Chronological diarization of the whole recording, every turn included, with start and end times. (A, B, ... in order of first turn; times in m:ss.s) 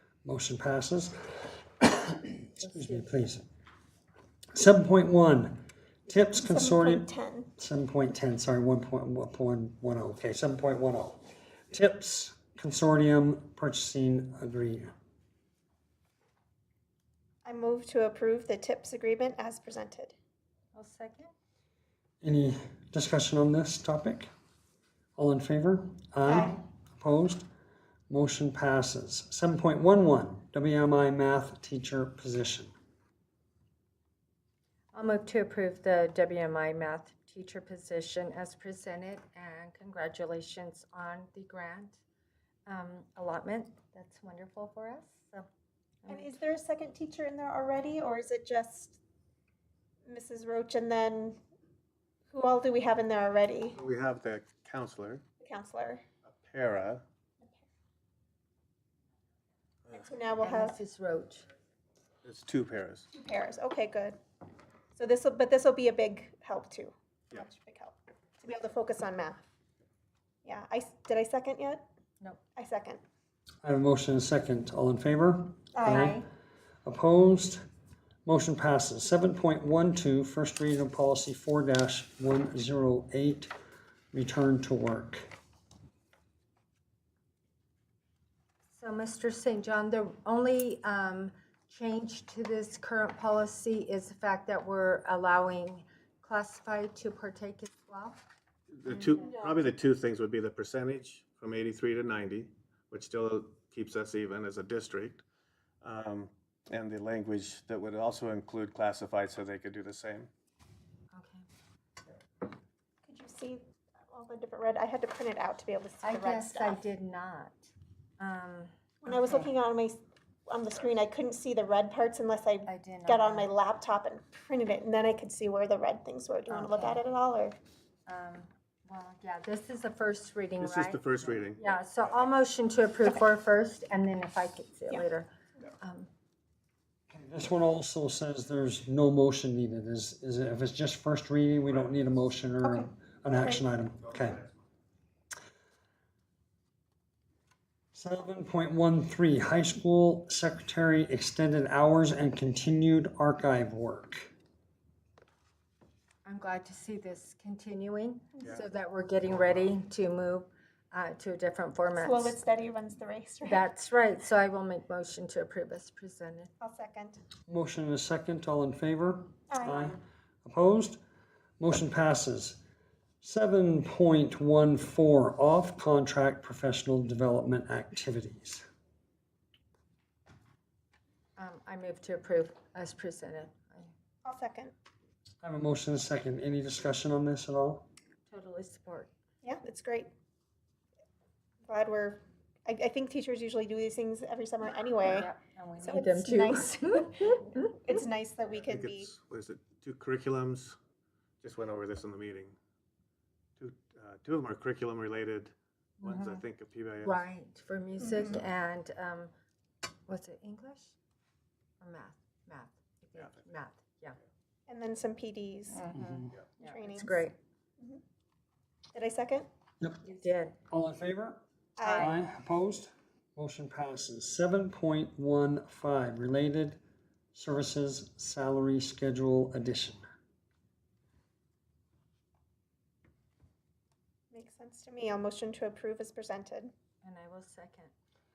0:00.2-0:03.4 A
0:02.6-0:03.1 B
0:04.5-0:14.9 A
0:06.4-0:07.5 C
0:17.4-0:20.1 C
0:20.7-0:21.3 B
0:22.2-0:24.3 A
0:25.2-0:27.4 A
0:26.3-0:26.6 C
0:28.1-0:32.7 A
0:34.9-0:42.0 B
0:42.7-0:45.5 B
0:46.0-0:46.3 B
0:46.1-0:49.0 C
0:50.1-0:51.4 C
0:52.3-0:53.8 C
0:53.8-0:55.2 D
0:55.4-0:56.0 C
0:56.2-0:57.0 D
0:57.4-0:57.6 C
0:59.9-1:00.8 C
1:00.4-1:01.4 B
1:02.2-1:03.1 D
1:03.1-1:04.2 C
1:04.9-1:09.4 C
1:10.4-1:11.8 C
1:12.6-1:13.0 C
1:13.6-1:16.2 A
1:15.7-1:16.2 C
1:16.8-1:17.6 A
1:18.2-1:23.5 A
1:24.1-1:25.3 A
1:28.7-1:38.2 B
1:38.7-1:45.2 D
1:38.9-1:39.4 B
1:45.8-1:50.3 D
1:51.1-1:51.4 B
1:53.0-1:56.8 C
1:56.0-1:57.7 B
1:58.2-1:59.5 B
1:59.0-2:07.6 C
2:02.7-2:03.5 B
2:06.5-2:07.0 B
2:08.1-2:15.3 B
2:10.6-2:11.6 D
2:15.8-2:16.1 B
2:17.1-2:24.4 A
2:22.6-2:23.6 C
2:27.9-2:34.3 A
2:36.2-2:42.4 B
2:42.0-2:43.6 C
2:43.4-2:46.5 B
2:46.6-2:47.2 C
2:47.5-2:51.0 A
2:49.5-2:50.0 C
2:51.6-2:52.6 A
2:53.2-2:58.6 A
3:01.4-3:03.9 B
3:04.2-3:04.7 C
3:05.4-3:07.9 A
3:08.3-3:09.1 B
3:09.4-3:10.1 C
3:11.6-3:19.1 C
3:15.0-3:17.7 B
3:18.6-3:20.8 D
3:21.4-3:22.5 D
3:23.6-3:27.2 D
3:26.0-3:26.4 B
3:27.0-3:29.3 B
3:28.0-3:28.4 C
3:30.1-3:30.9 B
3:31.8-3:34.2 B
3:34.7-3:35.8 C
3:35.7-3:37.3 B
3:35.9-3:36.3 A
3:36.6-3:37.3 C
3:38.9-3:39.5 C
3:40.0-3:40.6 B
3:40.7-3:46.8 A
3:41.8-3:42.2 C
3:41.8-3:42.1 B
3:47.3-3:50.0 A
3:54.3-3:56.7 C
3:57.0-3:57.9 B